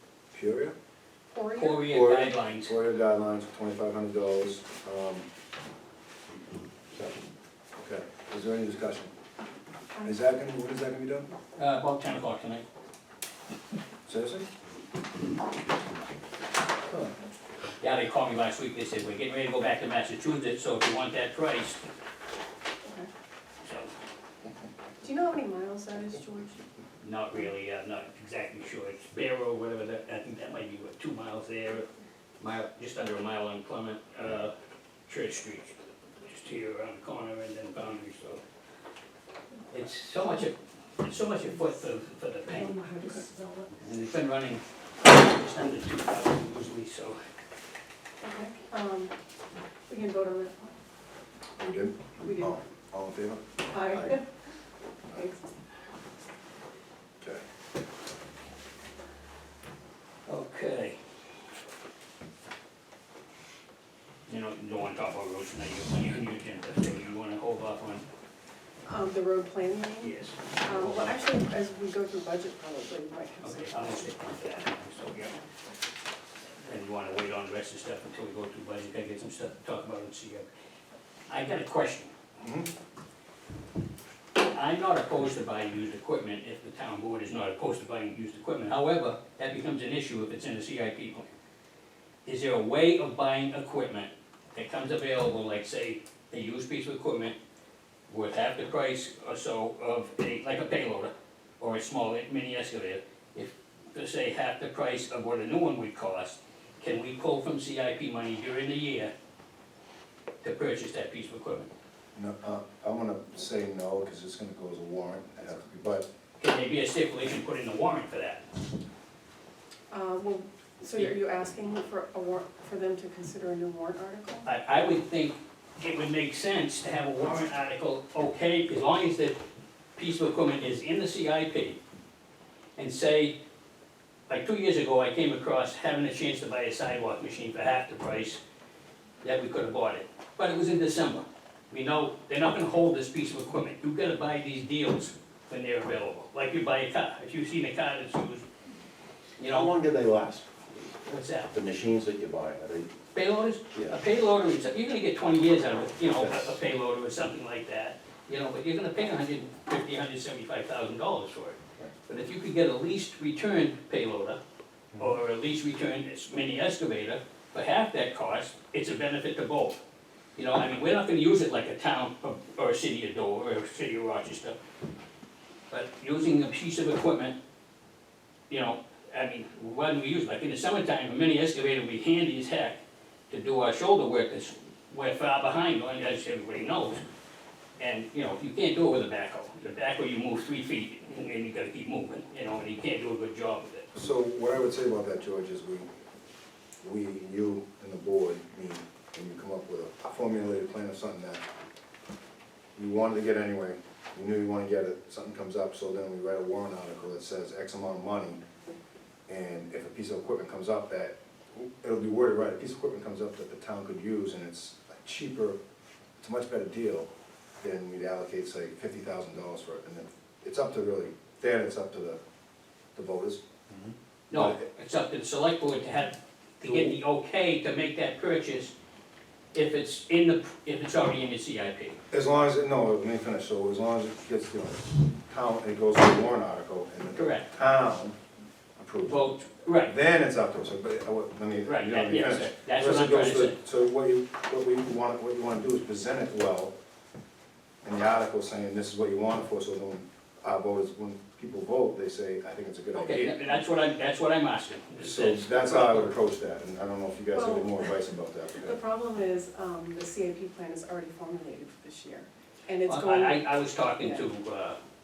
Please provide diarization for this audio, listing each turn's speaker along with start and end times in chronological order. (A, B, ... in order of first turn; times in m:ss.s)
0:00.3-0:00.7 A
0:01.3-0:01.9 B
0:01.5-0:02.7 C
0:01.9-0:05.2 A
0:07.8-0:09.1 A
0:10.0-0:11.3 A
0:11.6-0:12.6 C
0:14.1-0:14.5 A
0:17.8-0:21.8 C
0:22.8-0:23.1 B
0:23.6-0:23.9 C
0:25.0-0:26.6 B
0:27.0-0:31.9 C
0:32.4-0:34.5 C
0:35.1-0:38.4 C
0:39.7-0:42.8 C
0:42.5-0:43.7 B
0:43.8-0:47.2 C
0:48.2-0:49.1 B
0:49.9-0:50.7 B
0:51.6-0:54.2 A
0:52.2-0:52.6 B
0:53.7-0:54.2 B
0:55.1-0:55.4 B
1:00.3-1:01.0 C
1:04.3-1:08.0 C
1:08.8-1:14.1 B
1:10.0-1:11.2 C
1:13.4-1:15.4 C
1:16.6-1:20.5 C
1:21.3-1:22.1 C
1:22.4-1:22.7 A
1:24.4-1:31.3 C
1:32.2-1:37.4 C
1:38.1-1:49.1 C
1:50.4-1:51.7 C
1:52.1-1:56.1 A
1:56.4-1:58.4 C
1:59.9-2:04.5 B
2:04.4-2:09.4 C
2:10.0-2:11.8 C
2:12.8-2:13.3 C
2:14.3-2:18.4 C
2:19.2-2:28.4 C
2:29.4-2:29.7 C
2:29.4-2:30.5 D
2:31.0-2:31.5 C
2:31.5-2:32.9 D
2:33.1-2:44.4 C
2:36.0-2:36.6 D
2:45.0-2:49.8 C
2:50.4-2:54.6 C
2:55.7-2:57.3 C
2:58.5-3:02.8 C
3:03.3-3:07.0 C
3:07.8-3:13.9 C
3:13.9-3:15.9 A
3:16.8-3:21.4 A
3:22.8-3:28.4 A
3:29.3-3:35.6 A
3:36.2-3:37.1 A
3:37.6-3:42.2 A
3:42.9-3:43.4 A
3:44.3-3:48.7 C
3:44.3-3:44.6 A
3:46.6-3:46.9 A
3:49.5-3:52.0 C
3:52.1-3:58.2 A
3:57.1-3:57.5 C
3:58.8-3:59.2 A
3:59.0-3:59.9 C
3:59.8-4:06.7 A
4:01.6-4:03.6 C
4:07.8-4:13.4 A
4:12.9-4:16.1 C
4:15.0-4:18.8 A
4:17.3-4:17.8 B
4:18.6-4:23.5 B
4:22.8-4:24.8 C
4:24.0-4:24.2 B